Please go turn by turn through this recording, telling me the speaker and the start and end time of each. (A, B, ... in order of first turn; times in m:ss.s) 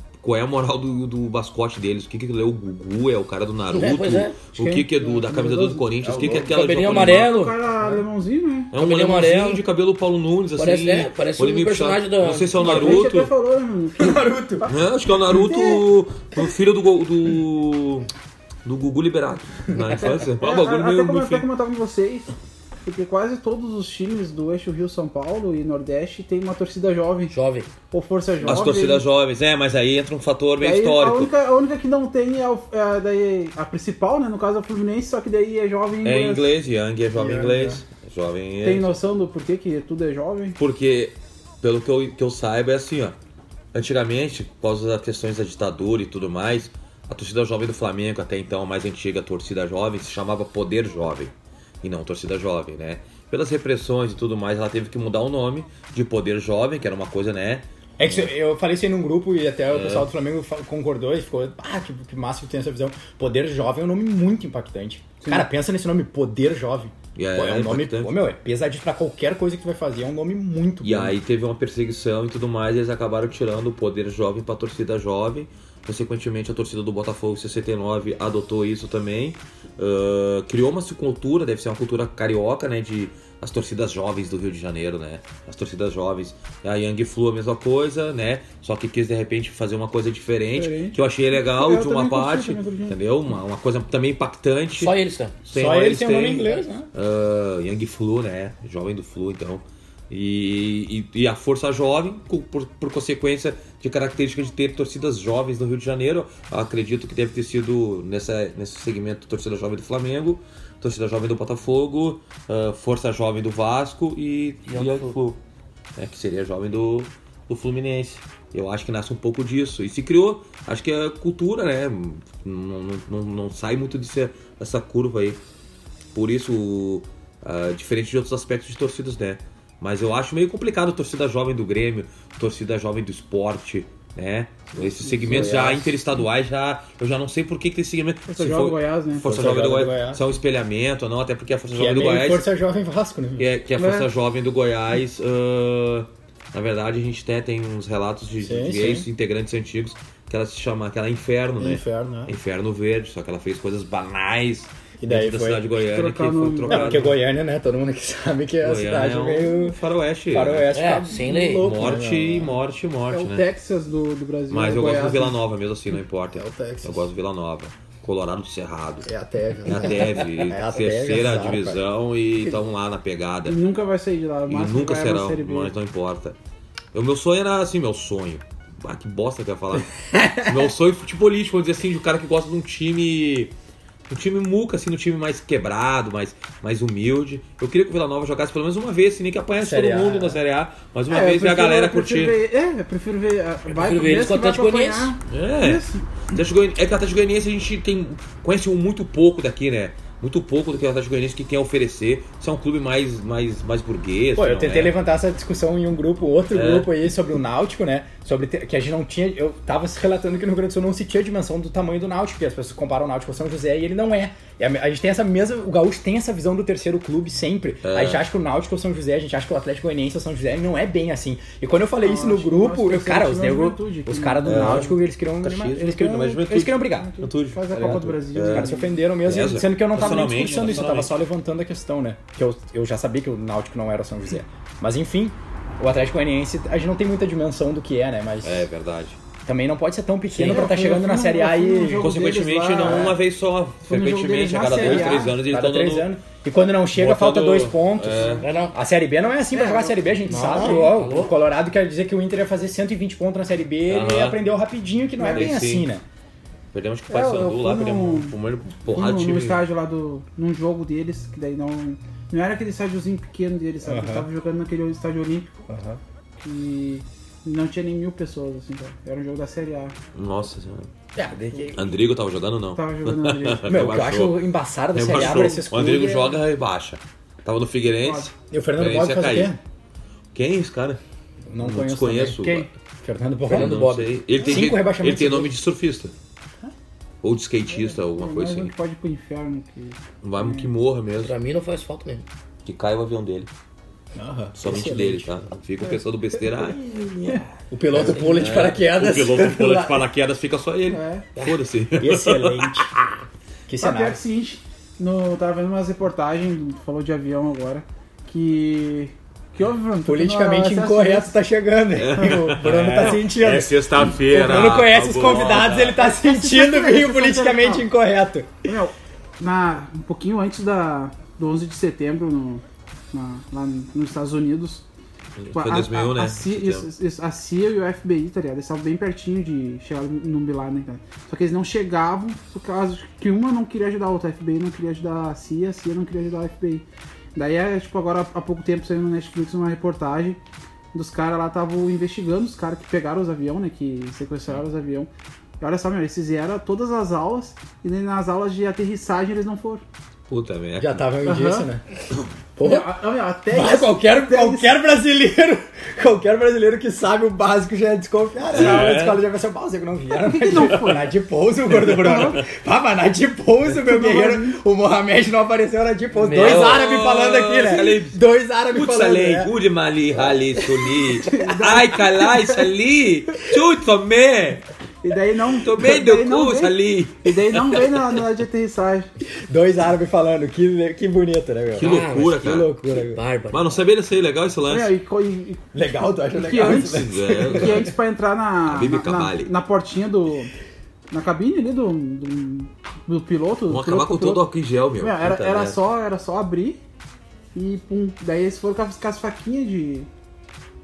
0:00.2-0:07.3 A
0:03.7-0:04.4 B
0:04.5-0:06.0 C
0:06.0-0:06.6 D
0:06.3-0:07.5 B
0:06.9-0:08.7 C
0:08.7-0:13.3 A
0:08.8-0:09.6 B
0:10.6-0:13.0 B
0:12.6-0:14.7 C
0:12.6-0:13.0 D
0:14.0-0:14.7 D
0:14.6-0:18.1 A
0:15.3-0:15.8 C
0:18.6-0:21.4 A
0:20.0-0:27.3 C
0:27.3-0:27.7 B
0:27.9-0:29.0 C
0:28.4-0:31.3 A
0:30.6-0:36.5 C
0:36.0-0:38.9 A
0:37.1-0:37.8 D
0:38.6-0:40.6 C
0:40.6-0:43.2 A
0:43.7-0:58.2 A
0:58.0-1:11.2 D
0:59.7-1:00.1 A
1:05.2-1:05.5 C
1:07.1-1:08.1 A
1:10.8-1:34.9 A
1:30.5-1:33.0 C
1:34.8-1:35.4 B
1:35.4-1:55.4 A
1:35.5-1:36.9 D
1:54.6-1:55.2 B
1:56.0-2:05.4 A
2:06.1-2:22.4 A
2:14.8-2:15.5 C
2:15.2-2:16.1 D
2:18.3-2:19.3 C
2:19.2-2:20.2 D
2:21.7-2:23.5 D
2:23.4-2:37.2 A
2:23.8-2:24.1 C
2:28.4-2:29.1 D
2:31.6-2:32.4 D
2:35.0-2:35.6 D
2:35.8-2:37.0 C
2:36.7-2:39.8 D
2:38.6-2:40.7 A
2:40.3-2:42.6 D
2:40.7-2:41.8 B
2:41.6-2:43.4 A
2:43.1-2:45.4 C
2:44.5-2:49.1 A
2:46.3-2:47.1 D
2:49.0-2:51.8 D
2:49.6-2:53.6 A
2:53.4-2:55.7 C
2:54.5-2:56.4 A
2:56.9-3:03.5 A
3:00.1-3:00.7 D
3:04.1-3:12.3 A
3:09.6-3:10.4 D
3:11.1-3:16.0 C
3:13.8-3:15.1 B
3:15.3-3:24.9 A
3:24.3-3:47.1 D
3:26.5-3:26.9 A
3:37.8-3:38.2 A
3:42.0-3:45.0 C
3:44.4-3:48.7 A
3:46.2-3:48.9 C
3:47.7-3:58.7 D
3:49.2-3:51.1 A
3:49.9-3:51.0 C
3:58.4-3:59.2 A
3:59.4-4:02.1 D
4:00.3-4:00.6 B
4:00.4-4:03.2 C
4:02.0-4:06.1 A
4:02.8-4:03.2 D
4:03.9-4:05.3 C
4:04.6-4:16.0 D
4:06.9-4:08.5 A
4:08.2-4:08.8 B
4:09.5-4:10.9 C
4:10.2-4:11.4 B
4:13.9-4:14.4 A
4:15.2-4:15.6 C
4:15.3-4:15.9 A
4:16.7-4:19.6 A
4:17.1-4:18.3 C
4:18.9-4:25.6 C
4:23.8-4:24.3 D
4:25.7-4:26.0 D
4:26.4-4:30.0 C
4:30.1-4:30.9 A
4:31.1-4:31.9 D
4:31.7-4:34.4 A
4:32.7-4:33.8 C
4:33.6-4:36.4 D
4:34.9-4:39.5 A
4:38.0-4:38.3 C
4:38.5-4:39.6 D
4:40.3-4:41.0 A
4:41.5-4:43.8 D
4:41.6-4:42.7 A
4:43.5-4:44.2 B
4:43.5-4:46.1 A
4:44.4-4:45.5 D
4:47.2-4:48.7 A
4:47.7-4:50.7 C
4:50.2-4:51.3 A
4:51.2-4:52.2 B
4:52.6-4:53.5 A
4:54.1-4:55.3 D
4:54.6-4:56.8 A
4:56.6-5:00.0 D
4:57.9-4:58.6 B
4:58.0-5:02.9 A
5:00.9-5:01.3 C
5:02.0-5:02.9 D
5:03.7-5:04.2 D
5:03.8-5:11.4 C
5:10.0-5:18.5 D
5:12.0-5:16.0 A
5:15.5-5:17.9 C
5:18.6-5:24.8 C
5:25.4-5:26.9 A
5:25.5-5:40.4 C
5:40.9-5:45.1 C
5:45.6-5:49.8 C
5:50.3-5:51.0 A
5:50.8-5:51.8 D
5:51.2-5:51.7 C
5:52.6-5:52.9 D
5:52.6-5:54.7 C
5:53.5-6:09.5 D
5:58.5-5:59.2 A
6:00.2-6:01.1 C
6:01.7-6:02.4 A
6:01.8-6:02.4 C
6:03.8-6:04.6 C
6:06.2-6:06.8 B
6:06.3-6:08.2 A
6:08.7-6:14.6 A
6:10.1-6:11.0 D
6:11.2-6:12.7 C
6:15.0-6:19.1 C
6:15.5-6:17.9 A
6:19.3-6:23.2 D
6:21.7-6:23.6 B
6:21.8-6:22.7 A
6:23.5-6:24.9 A
6:24.7-6:30.5 C
6:25.7-6:27.9 D
6:26.6-6:27.9 A
6:28.6-6:29.5 A
6:31.1-6:34.4 C
6:33.7-6:35.8 A
6:35.0-6:36.8 C
6:37.5-6:40.1 C